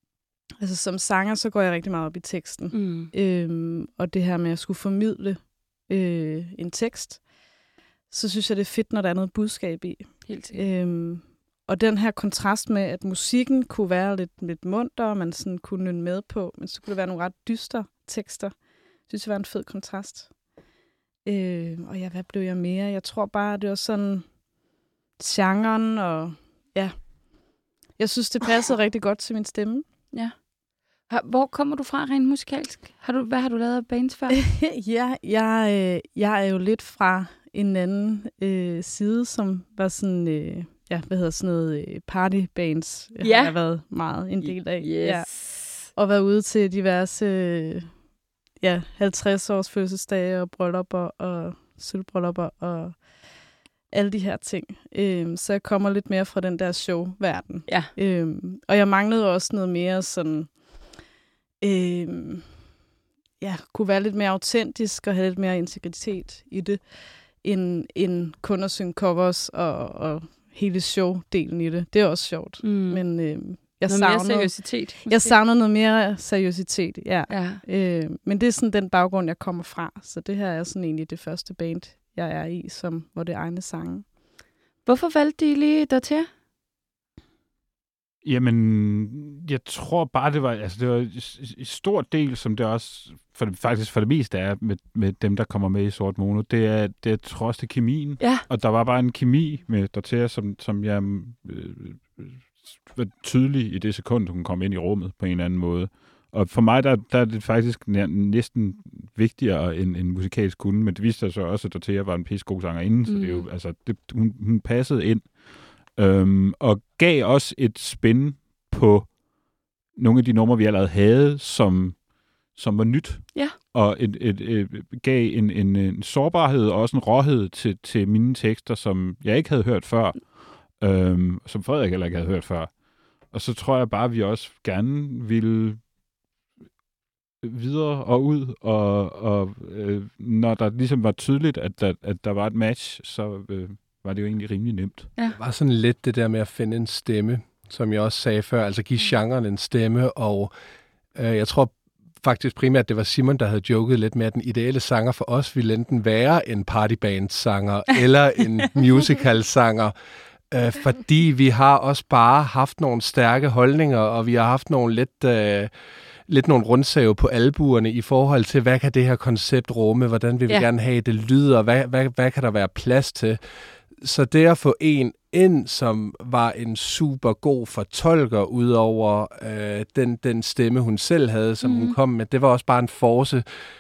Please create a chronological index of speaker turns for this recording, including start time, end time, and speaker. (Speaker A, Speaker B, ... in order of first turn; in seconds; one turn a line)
Speaker A: 0.6-7.3
Speaker B: 2.7-3.1
Speaker A: 8.1-20.3
Speaker B: 10.3-10.6
Speaker A: 21.2-24.3
Speaker A: 25.2-27.0
Speaker A: 28.0-29.9
Speaker B: 31.1-34.4
Speaker A: 34.4-48.0
Speaker B: 43.2-43.5
Speaker B: 44.4-45.9
Speaker A: 48.6-53.1
Speaker A: 53.9-60.6
Speaker A: 61.6-62.6
Speaker A: 63.4-84.1
Speaker B: 72.6-73.0
Speaker B: 73.6-75.3
Speaker B: 77.3-77.6
Speaker B: 84.8-86.3
Speaker C: 88.2-119.2
Speaker B: 98.2-98.5
Speaker B: 113.1-113.5
Speaker C: 119.9-135.9
Speaker C: 137.4-145.1
Speaker D: 145.3-150.5
Speaker D: 151.1-159.9
Speaker D: 160.5-165.7
Speaker D: 166.3-173.4
Speaker D: 174.0-183.4
Speaker B: 181.6-181.9